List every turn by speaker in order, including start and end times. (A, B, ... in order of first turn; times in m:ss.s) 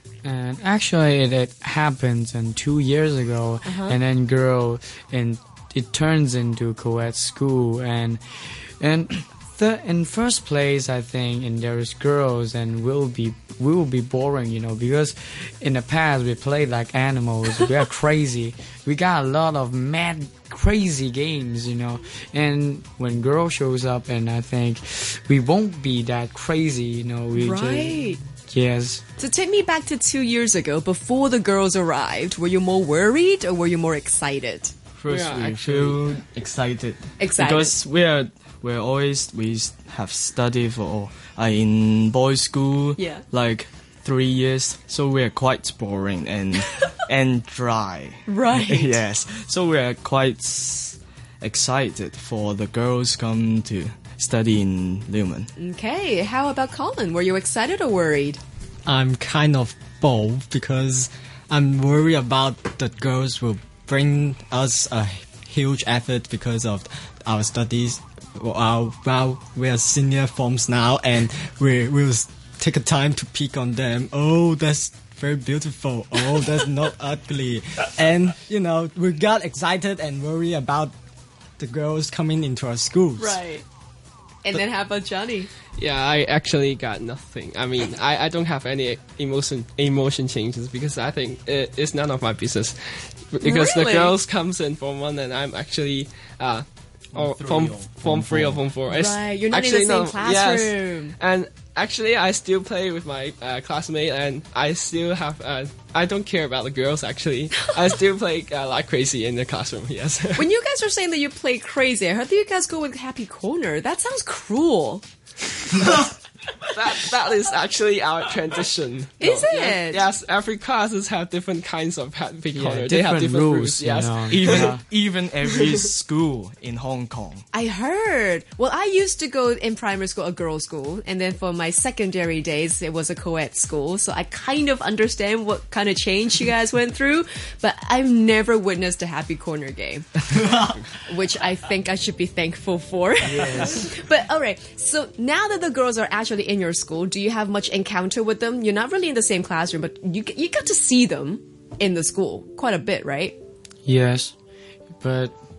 0:00.2-0:29.0 A
0:03.6-0:04.0 B
0:27.3-0:28.2 B
0:29.2-0:34.7 B
0:35.0-0:55.5 C
0:35.1-0:36.0 D
0:37.2-0:37.8 B
0:43.0-0:43.2 B
0:48.3-0:49.0 B
0:55.6-0:58.4 B
0:58.8-1:20.9 E
1:21.6-1:23.4 E
1:23.2-1:23.6 B
1:24.4-1:25.5 B
1:25.8-1:32.8 D
1:33.3-1:50.5 D
1:33.4-1:34.2 B
1:37.1-1:38.6 C
1:38.9-1:41.1 B
1:50.4-1:55.0 B
1:56.7-2:04.7 D
1:59.2-2:00.0 B
2:02.5-2:04.8 A
2:04.3-2:07.4 C
2:07.5-2:33.4 B
2:23.2-2:23.9 A
2:33.8-2:34.3 A
2:35.0-2:35.3 A